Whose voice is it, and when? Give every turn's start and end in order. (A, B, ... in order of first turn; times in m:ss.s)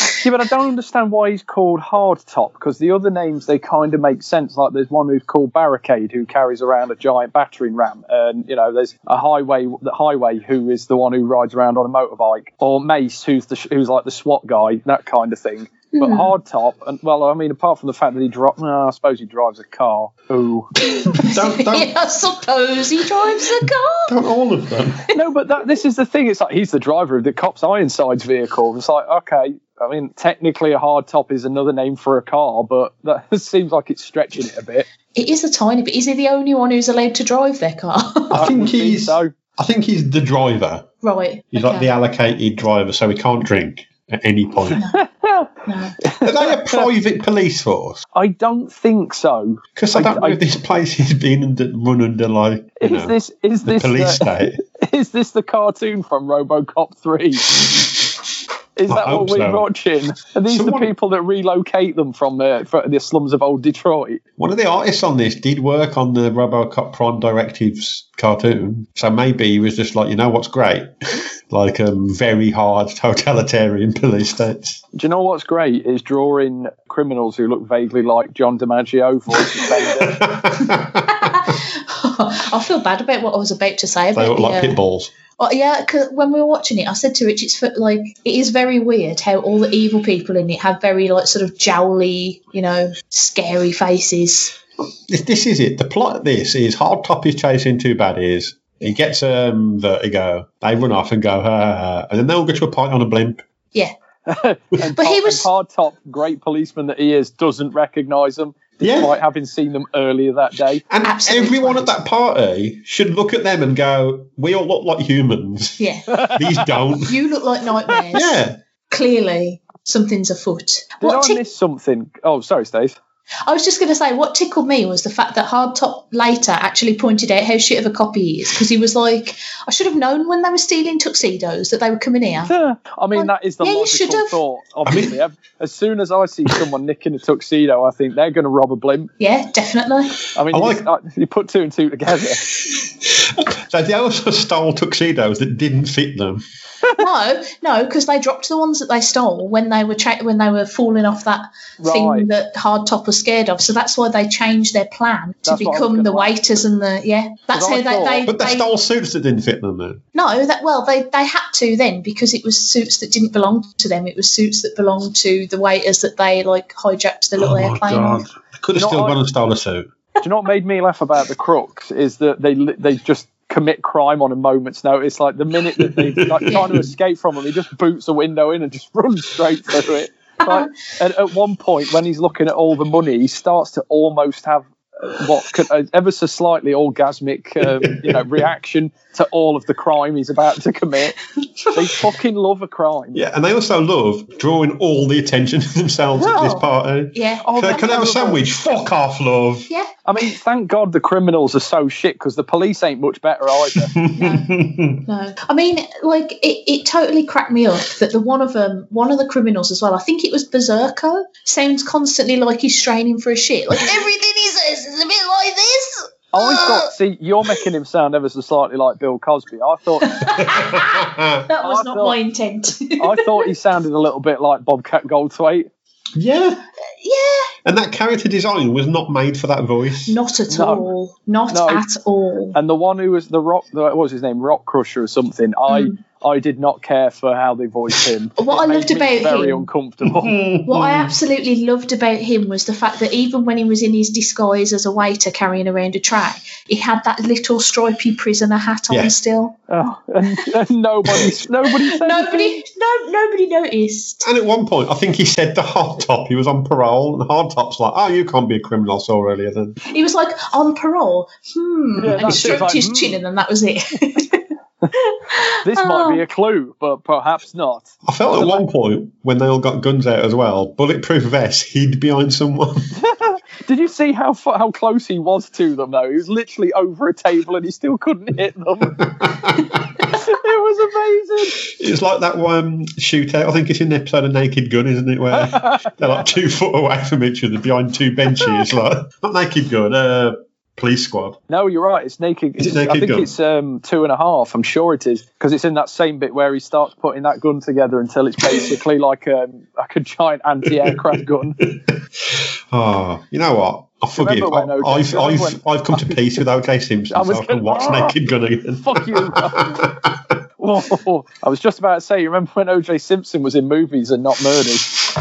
0:00.2-0:20.7 A
0:15.9-0:16.3 B
0:20.8-0:24.2 B
0:21.1-0:21.9 C
0:24.1-0:25.1 C
0:25.1-0:34.9 A
0:35.2-0:38.5 B
0:38.3-0:40.9 C
0:38.3-0:39.3 A
0:41.0-0:41.9 B
0:41.5-0:44.8 C
0:44.7-0:46.9 A
0:45.7-0:46.0 B
0:46.2-0:48.0 C
0:48.1-0:50.4 A
0:49.8-0:54.6 C
0:52.8-0:57.6 A
0:58.8-1:04.2 A
0:58.9-0:59.7 C
1:00.5-1:00.9 C
1:04.4-1:10.9 C
1:11.5-1:14.8 C
1:14.9-1:20.2 A
1:19.9-1:21.5 C
1:21.1-1:24.8 B
1:24.2-1:25.1 C
1:25.4-1:34.6 B
1:35.1-1:43.4 C
1:44.3-1:50.8 A
1:45.0-1:45.5 B
1:48.8-1:49.2 C
1:50.9-1:57.1 C
1:51.0-1:51.9 B
1:55.8-1:56.0 B
1:56.1-1:56.8 A
1:57.1-2:01.4 B
1:58.1-1:58.6 C
2:01.0-2:03.0 A
2:03.4-2:12.5 B
2:12.5-2:19.1 A
2:13.2-2:14.4 B
2:14.9-2:15.2 C
2:19.2-2:20.2 B
2:20.4-2:22.4 A
2:20.5-2:20.9 C
2:23.0-2:26.4 C
2:27.0-2:38.7 B
2:31.8-2:32.3 A
2:35.4-2:36.3 A
2:37.5-2:38.3 A
2:38.2-2:40.0 C
2:40.2-2:48.2 B
2:47.4-2:49.9 C
2:48.8-2:49.2 A
2:50.2-3:11.2 A
2:55.8-2:56.8 C
3:07.6-3:08.4 C
3:11.7-3:13.2 A
3:13.1-3:19.7 C
3:16.2-3:16.6 A
3:16.3-3:18.3 B
3:17.4-3:18.4 A
3:20.1-3:23.9 A
3:23.9-3:25.0 C
3:24.1-3:36.1 B
3:36.3-3:40.2 A
3:40.0-3:43.4 B
3:40.4-3:41.5 C
3:41.6-3:42.2 A
3:43.0-3:45.7 A
3:46.2-3:46.6 C
3:47.0-3:47.5 B
3:47.6-3:50.2 C
3:50.1-3:52.6 B
3:50.5-3:50.9 A
3:51.5-3:51.8 A
3:52.5-4:00.4 A
3:55.7-3:56.0 B
3:58.4-3:59.7 B
4:00.0-4:01.2 C
4:00.6-4:09.6 B
4:09.7-4:12.6 A
4:11.8-4:14.3 B
4:14.2-4:19.8 C
4:19.8-4:26.2 B
4:22.0-4:23.2 A
4:25.6-4:28.6 A
4:28.0-4:32.9 C
4:33.0-4:39.1 A
4:38.9-4:40.0 C
4:40.0-4:41.6 A
4:41.6-4:51.4 C
4:45.3-4:46.3 A
4:51.5-5:01.6 A
4:52.6-4:53.3 C
5:01.6-5:10.3 C
5:04.2-5:06.4 A
5:07.1-5:08.2 A
5:08.8-5:09.9 A
5:10.6-5:14.9 A